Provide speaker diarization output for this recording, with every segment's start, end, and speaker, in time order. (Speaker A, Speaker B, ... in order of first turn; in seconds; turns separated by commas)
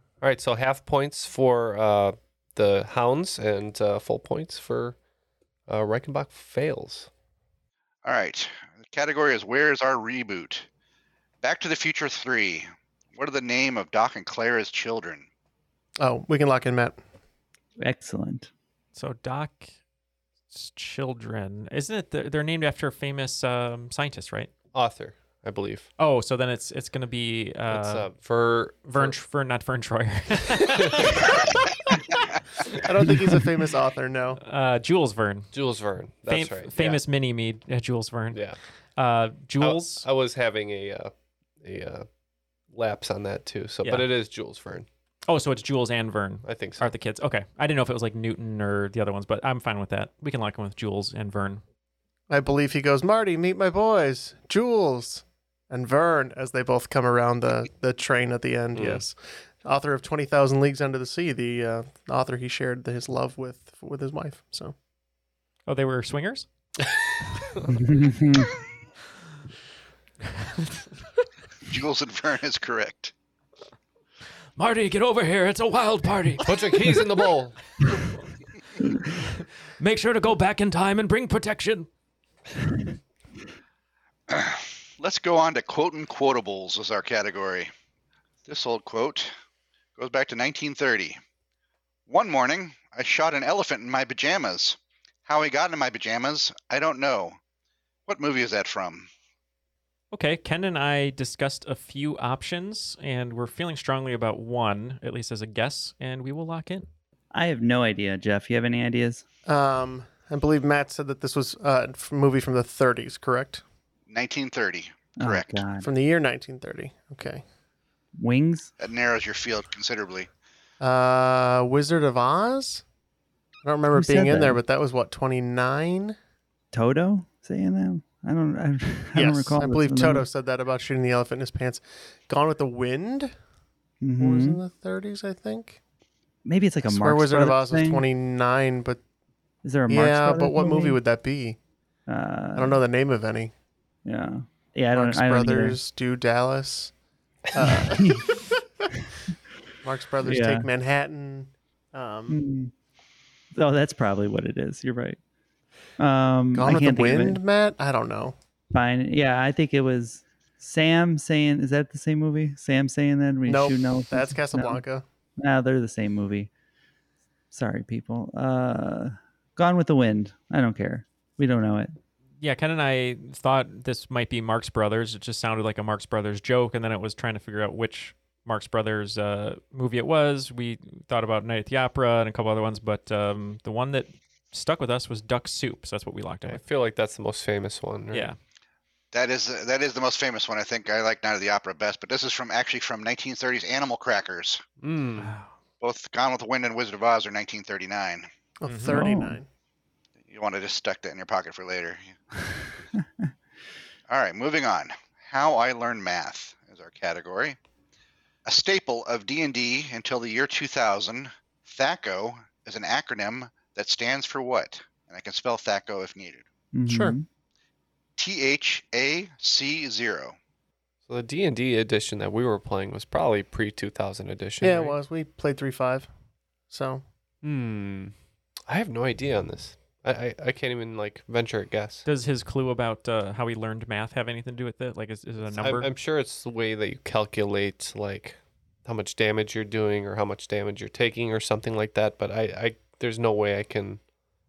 Speaker A: 0.2-5.0, Speaker A: 5.7-7.1, Speaker B: 8.0-10.7, Speaker B: 11.4-15.3, Speaker C: 16.0-17.0, Speaker D: 17.8-18.5, Speaker E: 18.9-19.8, Speaker E: 20.5-24.5, Speaker A: 24.7-25.9, Speaker E: 26.0-28.1, Speaker A: 27.7-29.2, Speaker E: 28.9-31.2, Speaker A: 30.7-31.2, Speaker C: 32.8-34.4, Speaker E: 34.4-35.5, Speaker A: 35.5-37.0, Speaker E: 36.3-38.4, Speaker A: 38.3-38.6, Speaker E: 39.0-40.0, Speaker A: 39.6-42.1, Speaker A: 42.7-44.9, Speaker E: 43.8-44.1, Speaker E: 45.3-51.6, Speaker A: 46.4-46.9, Speaker C: 52.3-64.7, Speaker A: 58.7-59.0, Speaker E: 65.7-66.5, Speaker D: 67.7-68.5, Speaker B: 71.7-73.1, Speaker E: 74.5-76.4, Speaker A: 76.4-77.6, Speaker E: 79.8-81.9, Speaker B: 84.3-87.7, Speaker B: 88.5-89.3, Speaker B: 90.0-91.2, Speaker B: 92.1-97.4, Speaker B: 98.1-99.1, Speaker E: 100.1-106.9, Speaker D: 107.3-109.2, Speaker C: 109.5-113.6, Speaker B: 114.1-115.6, Speaker D: 115.2-115.9, Speaker C: 115.8-117.4, Speaker D: 118.2-118.7, Speaker B: 118.8-120.3, Speaker C: 120.8-122.8, Speaker C: 123.6-126.2, Speaker D: 123.9-124.6, Speaker D: 126.7-130.2, Speaker C: 129.1-133.3, Speaker D: 134.0-134.6, Speaker C: 134.2-135.8, Speaker D: 136.4-138.0, Speaker C: 136.9-139.0, Speaker D: 139.6-141.0, Speaker C: 139.9-141.6, Speaker D: 142.1-142.8, Speaker C: 142.6-143.5, Speaker D: 144.1-145.8, Speaker C: 144.9-146.9, Speaker C: 147.5-148.4, Speaker D: 147.6-148.3, Speaker C: 149.8-152.4, Speaker D: 150.2-150.7, Speaker D: 152.3-152.7, Speaker D: 153.5-155.2, Speaker D: 156.0-157.4, Speaker C: 156.5-158.3, Speaker D: 158.7-164.8, Speaker C: 163.5-165.0, Speaker D: 165.4-166.5, Speaker D: 167.5-172.0, Speaker E: 172.4-186.6, Speaker A: 186.5-188.3, Speaker E: 188.1-188.4, Speaker B: 189.1-194.6, Speaker A: 194.8-195.3, Speaker E: 195.2-195.5, Speaker B: 195.8-198.3, Speaker C: 198.6-199.5, Speaker E: 198.7-199.0, Speaker D: 198.9-199.4, Speaker B: 200.3-202.1, Speaker B: 204.1-207.6, Speaker B: 208.5-216.4, Speaker D: 216.7-217.2, Speaker C: 216.9-217.2, Speaker B: 218.2-220.4, Speaker A: 221.1-224.8, Speaker C: 224.6-226.1, Speaker C: 226.7-227.0, Speaker A: 227.4-228.1, Speaker A: 228.7-232.1, Speaker E: 232.0-235.9, Speaker A: 235.5-244.0